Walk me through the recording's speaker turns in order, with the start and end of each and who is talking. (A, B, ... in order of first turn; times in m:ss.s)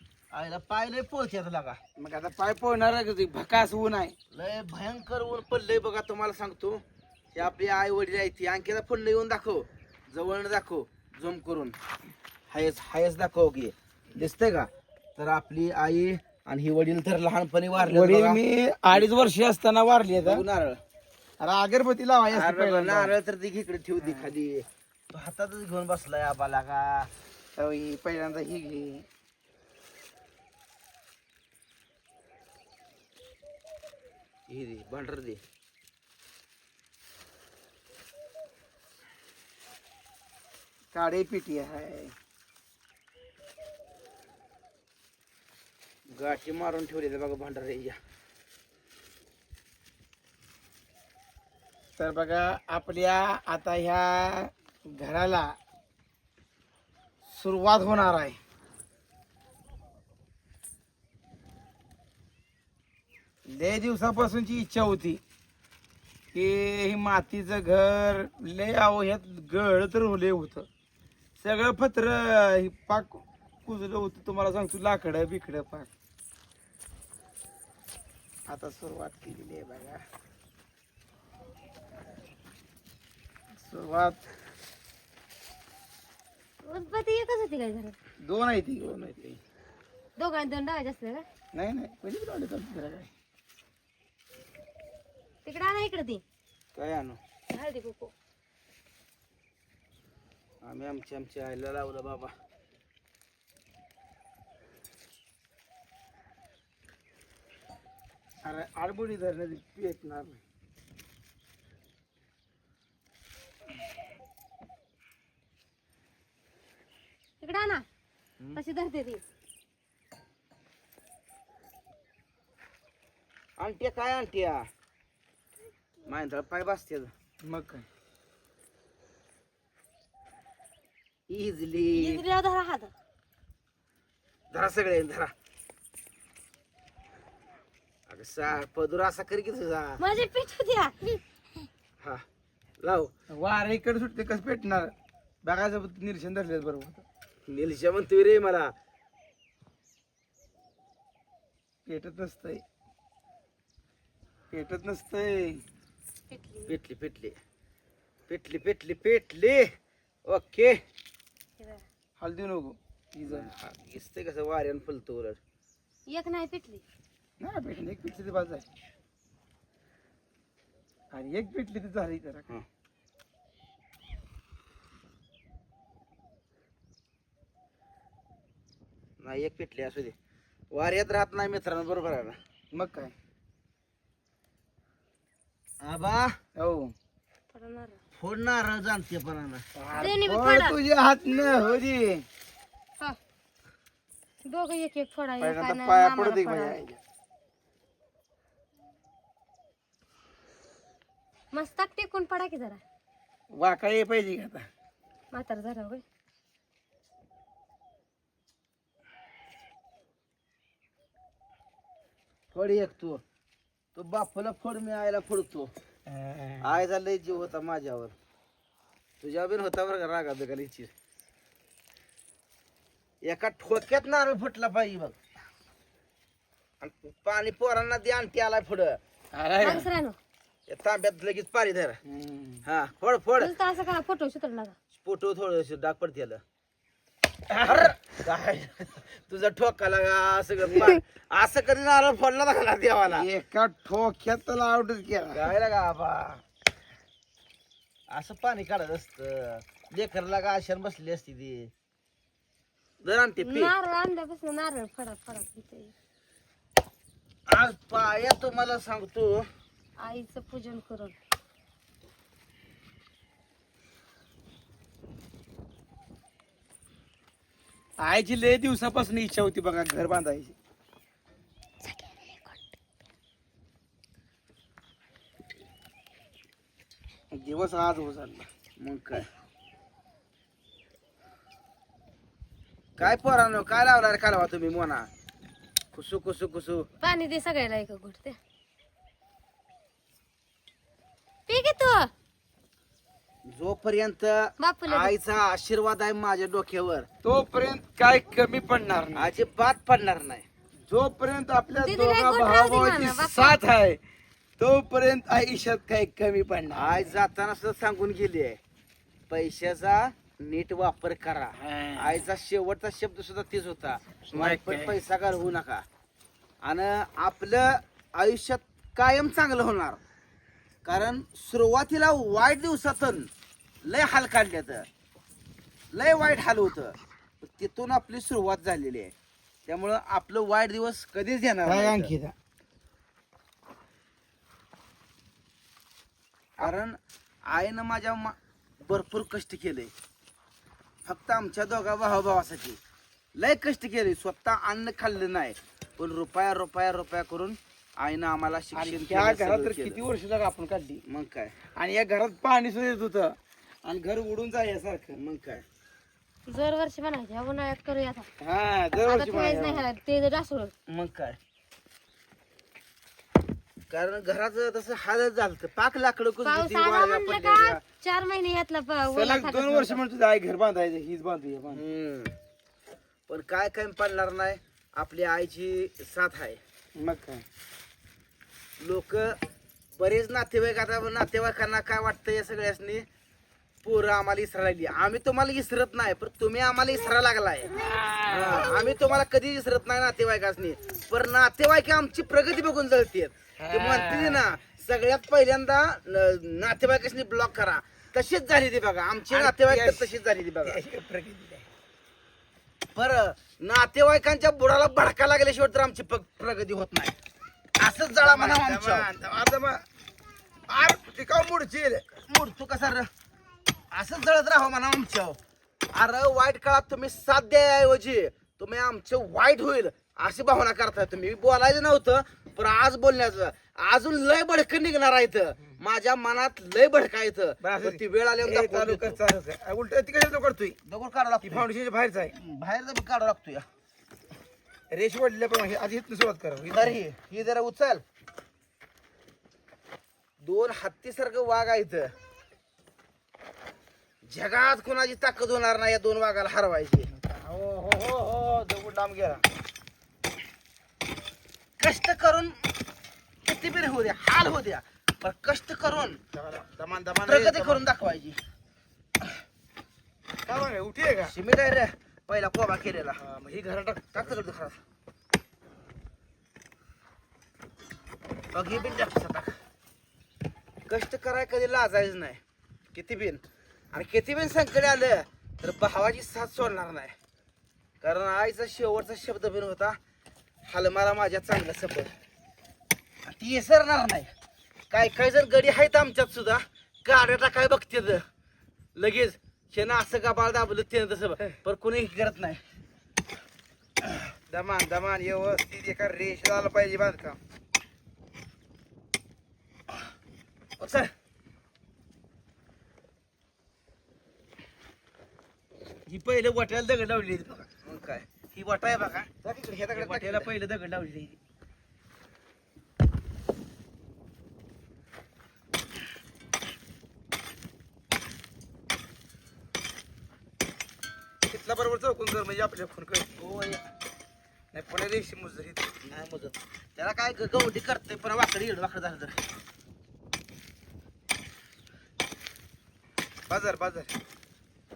0:00.3-0:01.8 A
0:02.0-0:04.1 B
0:04.3-0:06.8 A
0:07.3-0:11.8 A
0:12.5-0:19.1 A
0:17.9-0:20.4 B
0:20.2-0:20.8 A
0:21.4-0:23.1 B
0:22.3-0:27.1 A
0:24.0-0:24.3 B
0:27.6-0:29.0 B
0:34.5-0:35.4 A
0:40.9-0:42.1 B
0:46.1-0:48.0 A
0:52.0-0:55.6 B
0:57.3-0:58.4 B
1:03.5-1:05.2 B
1:06.3-1:10.7 B
1:11.4-1:15.9 B
1:18.5-1:20.0 B
1:23.6-1:24.2 B
1:26.6-1:28.0 C
1:28.2-1:29.4 B
1:30.2-1:31.2 C
1:31.5-1:33.1 B
1:35.4-1:36.2 C
1:36.7-1:37.2 A
1:37.5-1:38.1 C
1:40.6-1:42.3 A
1:48.4-1:50.4 B
1:57.4-1:57.8 C
1:58.5-1:59.2 C
2:03.6-2:04.7 A
2:06.0-2:07.1 A
2:07.4-2:07.8 B
2:11.3-2:12.2 A
2:11.9-2:12.9 C
2:14.5-2:15.3 A
2:18.1-2:20.0 A
2:20.0-2:21.2 C
2:22.8-2:23.1 A
2:23.3-2:27.0 B
2:27.5-2:28.7 A
2:31.8-2:32.6 B
2:34.5-2:35.6 B
2:36.3-2:36.7 C
2:36.7-2:37.4 A
2:38.3-2:39.7 A
2:40.2-2:40.8 A
2:42.2-2:43.5 B
2:43.2-2:45.4 A
2:46.1-2:46.8 C
2:47.4-2:48.6 B
2:51.1-2:52.4 B
2:59.2-3:00.1 A
3:00.7-3:02.4 A
3:02.7-3:03.1 B
3:05.8-3:06.4 A
3:06.6-3:06.9 B
3:07.5-3:08.0 C
3:08.2-3:09.6 A
3:09.7-3:12.2 B
3:10.0-3:10.8 C
3:14.4-3:16.8 C
3:15.4-3:17.0 B
3:21.5-3:22.8 C
3:23.5-3:24.7 B
3:25.3-3:26.0 C
3:32.5-3:33.2 A
3:33.9-3:35.7 A
3:36.1-3:36.8 B
3:36.6-3:38.1 A
3:39.2-3:40.9 A
3:43.2-3:45.1 A
3:46.8-3:49.0 A
3:49.3-3:49.9 B
3:49.6-3:50.2 C
3:50.7-3:52.0 A
3:52.0-3:52.6 B
3:52.6-3:53.5 A
3:53.4-3:54.7 C
3:54.9-3:56.4 A
3:57.5-4:03.3 A
4:00.7-4:01.0 B
4:03.1-4:05.5 B
4:05.3-4:06.4 A
4:08.1-4:11.7 A
4:13.0-4:13.7 A
4:13.4-4:15.9 C
4:17.5-4:19.5 A
4:20.0-4:21.2 C
4:28.0-4:30.5 B
4:31.8-4:32.4 C
4:37.3-4:38.5 B
4:38.8-4:39.3 A
4:43.0-4:45.1 A
4:45.9-4:46.9 A
4:47.0-4:48.4 C
4:51.5-4:52.1 C
4:53.4-4:57.1 A
4:54.6-4:55.1 C
4:57.2-4:59.3 B
4:59.1-5:00.4 A
5:00.9-5:04.0 B
5:01.7-5:03.6 C
5:04.6-5:07.0 B
5:06.7-5:08.6 A
5:09.3-5:15.8 A
5:11.6-5:12.2 B
5:14.3-5:15.0 B
5:16.6-5:20.0 A
5:20.8-5:23.3 A
5:23.8-5:24.9 A
5:25.9-5:29.1 A
5:29.6-5:32.1 A
5:31.6-5:32.3 B
5:36.6-5:39.9 A
5:41.0-5:42.8 A
5:43.4-5:50.0 A
5:48.7-5:51.0 B
5:51.0-5:51.5 A
5:51.8-5:55.2 B
5:55.1-5:55.6 A
5:56.5-5:58.2 C
5:58.4-5:59.8 B
5:59.0-6:00.7 C
6:00.9-6:01.4 A
6:03.9-6:07.8 A
6:06.4-6:10.0 C
6:09.1-6:11.8 B
6:11.7-6:12.3 A
6:13.3-6:16.6 A
6:17.0-6:17.4 B
6:18.8-6:19.4 A
6:20.0-6:23.1 A
6:23.8-6:27.7 A
6:27.7-6:28.8 B
6:28.2-6:40.8 A
6:33.6-6:34.5 B
6:39.3-6:40.1 B
6:40.6-6:41.6 B
6:42.9-6:47.1 A
6:47.8-6:49.1 A
6:48.2-6:49.8 B
6:50.7-6:52.1 B
6:52.3-6:53.1 A
6:53.9-6:55.4 A
6:55.9-7:09.2 A
7:07.6-7:10.8 B
7:10.8-7:11.7 A
7:11.4-7:12.3 B
7:12.3-7:13.6 A
7:14.9-7:17.0 B
7:16.7-7:18.0 A
7:20.4-7:22.1 A
7:24.2-7:27.1 A
7:27.2-7:27.6 B
7:27.9-7:29.4 A
7:31.8-7:32.6 A
7:33.4-7:36.2 A
7:36.3-7:37.8 B
7:37.2-7:38.4 A
7:40.4-7:41.3 B
7:41.3-7:43.2 A
7:43.2-7:44.4 B
7:44.1-7:44.8 A
7:48.5-7:49.6 A
7:50.8-7:52.4 A
7:52.9-7:57.1 A
7:58.0-8:00.0 A
8:00.6-8:02.1 A
8:03.2-8:04.3 A
8:04.9-8:08.2 A
8:08.9-8:12.6 A
8:14.5-8:17.4 B
8:20.8-8:21.1 A
8:26.0-8:27.7 B
8:27.8-8:30.5 A
8:29.4-8:31.4 B
8:41.4-8:43.4 B
8:43.4-8:43.8 A
8:44.7-8:46.0 B
8:46.0-8:49.5 A
8:53.5-8:54.1 B